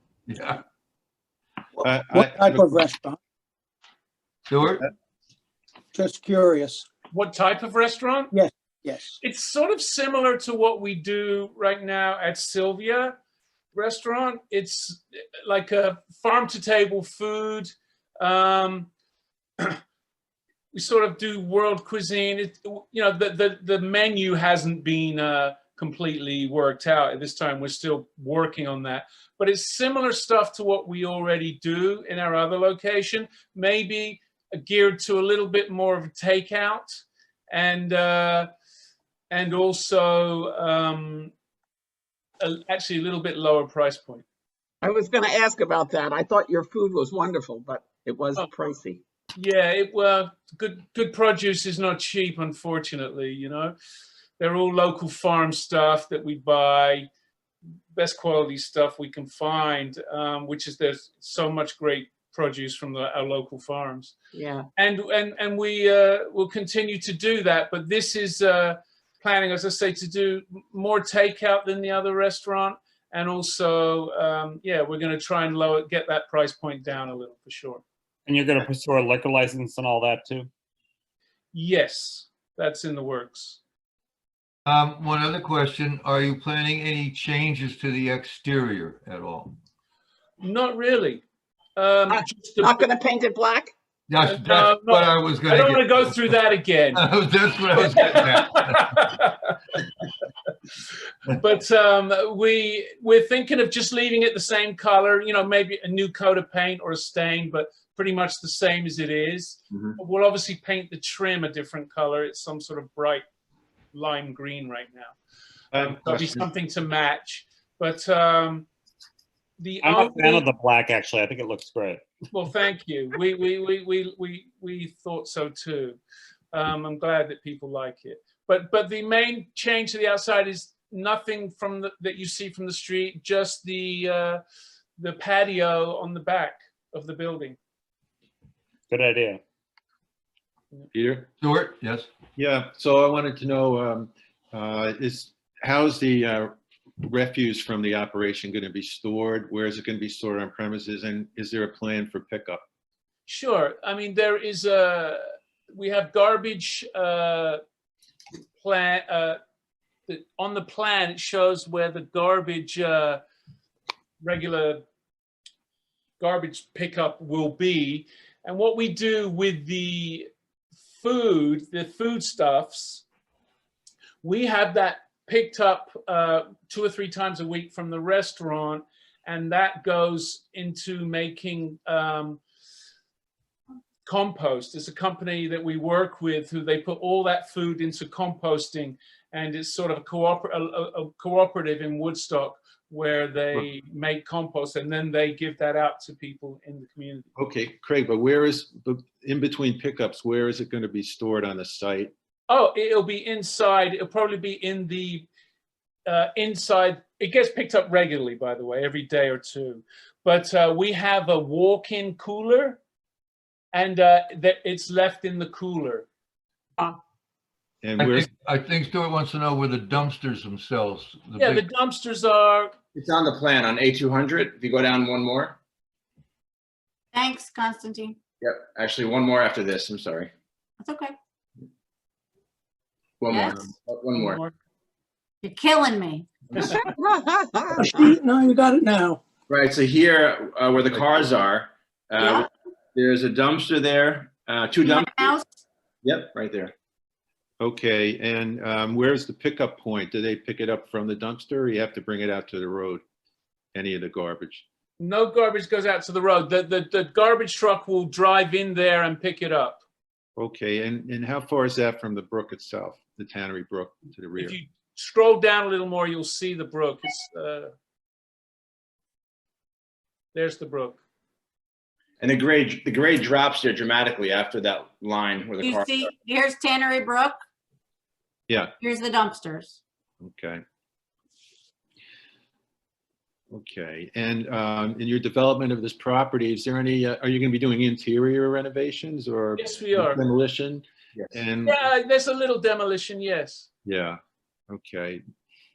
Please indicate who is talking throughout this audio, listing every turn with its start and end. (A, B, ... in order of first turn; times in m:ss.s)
0:00.3-0:00.6 A
0:01.8-0:02.8 B
0:02.1-0:03.2 C
0:04.5-0:04.8 A
0:05.9-0:06.8 C
0:07.1-0:08.3 D
0:08.4-0:09.2 C
0:09.2-0:13.2 D
0:13.7-0:18.9 D
0:20.7-0:38.5 D
0:39.3-0:41.3 D
0:42.4-0:44.2 D
0:44.8-0:49.0 E
0:49.4-0:53.7 D
0:54.4-0:57.1 D
0:57.9-1:04.1 D
1:04.3-1:04.7 E
1:04.8-1:17.8 D
1:18.3-1:20.5 F
1:21.5-1:23.6 D
1:24.7-1:29.6 A
1:30.4-1:31.2 D
1:31.8-1:32.8 D
1:32.6-1:33.7 E
1:34.1-1:39.0 A
1:34.3-1:37.0 D
1:37.8-1:39.6 D
1:41.3-1:53.2 D
1:53.9-1:55.1 D
1:55.7-1:56.4 B
1:55.7-1:58.7 D
1:59.6-2:00.4 D
1:59.8-2:02.0 F
2:02.3-2:06.0 D
2:06.5-2:14.4 D
2:15.0-2:17.6 D
2:18.9-2:19.4 F
2:20.9-2:21.3 B
2:21.4-2:22.1 A
2:22.4-2:32.6 B
2:33.3-2:37.6 D
2:38.6-2:39.4 D
2:40.1-2:43.2 D
2:44.2-2:44.8 D
2:46.2-2:50.3 D
2:51.0-2:53.0 D
2:54.2-3:02.4 D
3:04.0-3:17.3 D
3:17.4-3:22.1 B
3:22.5-3:25.3 D
3:26.1-3:32.8 D
3:33.7-3:36.1 D
3:37.8-3:38.3 B
3:38.0-3:41.6 A
3:41.4-3:42.7 D
3:43.0-3:45.6 G
3:47.1-3:48.2 H
3:48.4-3:50.3 G
3:50.8-3:51.1 H
3:53.2-3:54.4 G
3:53.3-3:53.7 H
3:54.1-3:54.5 D
3:55.4-3:56.3 H
3:56.6-3:58.0 E
3:57.8-3:59.2 C
3:59.5-4:05.4 G
4:00.9-4:01.3 B
4:02.2-4:02.5 H
4:04.8-4:05.5 H
4:06.0-4:06.7 G
4:07.6-4:13.0 B
4:13.7-4:14.6 B
4:15.0-4:19.8 D
4:20.4-4:24.6 B
4:24.4-4:27.7 D
4:30.4-4:31.0 D
4:32.2-4:36.1 G
4:35.6-4:37.4 H
4:38.8-4:39.8 H
4:40.2-4:40.6 B
4:43.5-4:51.8 B
4:49.6-4:50.2 D
4:51.6-4:53.7 D
4:53.9-4:54.2 B
4:54.7-4:55.2 B